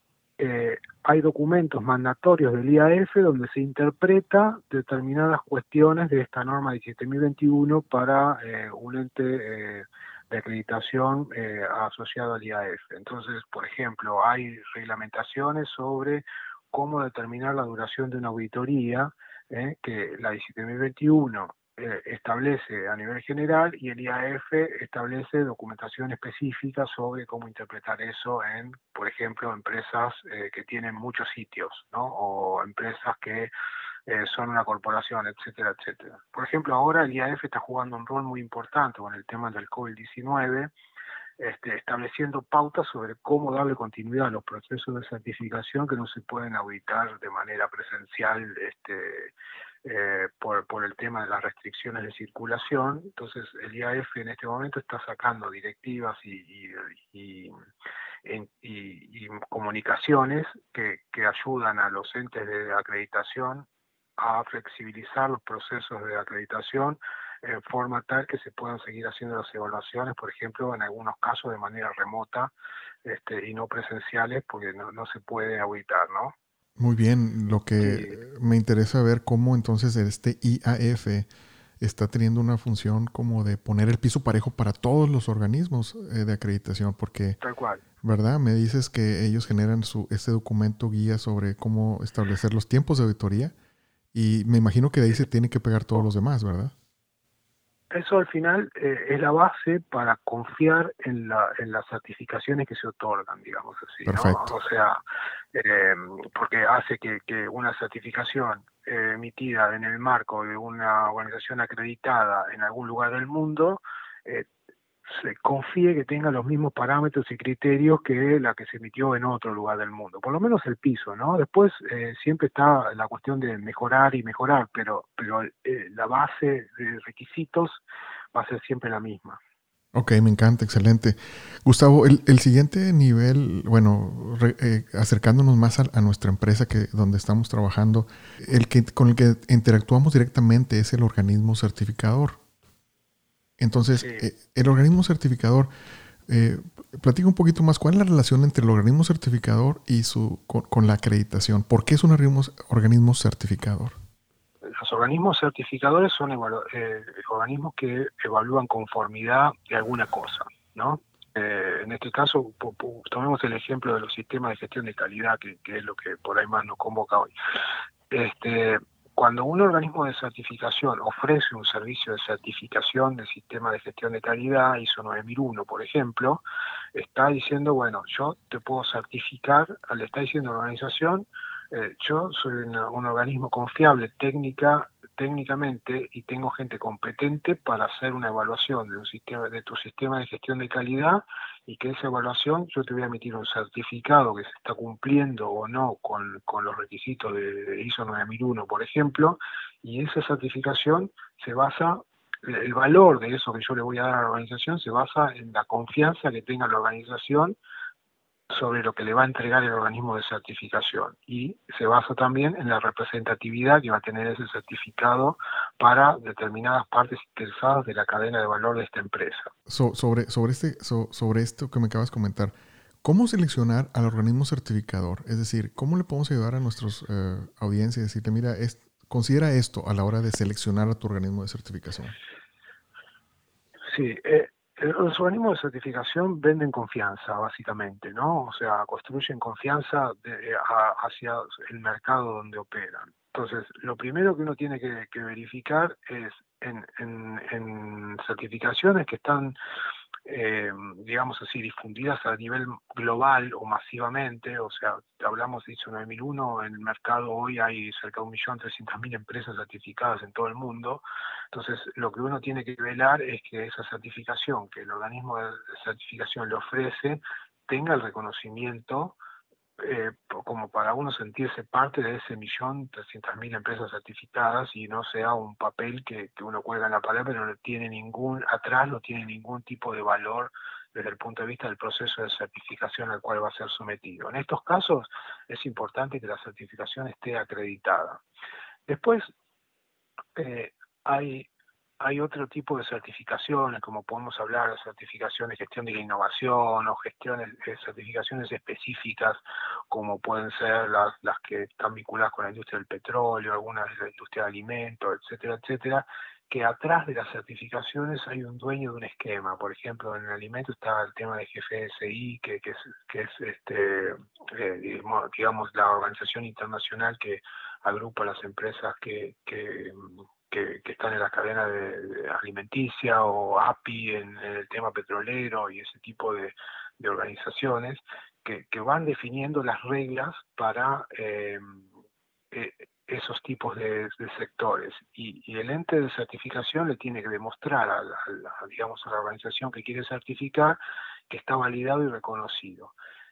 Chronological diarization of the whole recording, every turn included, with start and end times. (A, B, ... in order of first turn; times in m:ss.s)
0:00.4-0:33.5 A
0:34.1-0:40.7 A
0:41.4-0:57.5 A
0:58.2-1:03.7 A
1:04.2-1:12.5 A
1:13.0-1:16.4 A
1:16.8-1:21.3 B
1:17.8-1:18.2 A
1:21.8-1:27.4 B
1:27.4-1:27.8 A
1:28.0-1:33.5 B
1:34.1-1:36.7 B
1:37.9-1:45.0 A
1:44.1-1:44.5 B
1:45.5-1:54.5 A
1:55.0-2:09.4 A
2:10.0-2:22.4 B
2:23.6-2:25.7 B
2:24.0-2:24.3 A
2:26.3-2:34.0 B
2:34.8-2:47.3 A
2:48.1-3:27.6 A
3:28.5-3:39.5 A
3:39.7-3:52.2 B
3:53.9-4:09.6 A
4:10.2-4:29.2 A
4:29.8-4:48.2 A
4:48.9-4:49.3 A
4:50.4-4:51.5 A
4:52.0-5:31.9 A
5:32.5-5:43.0 A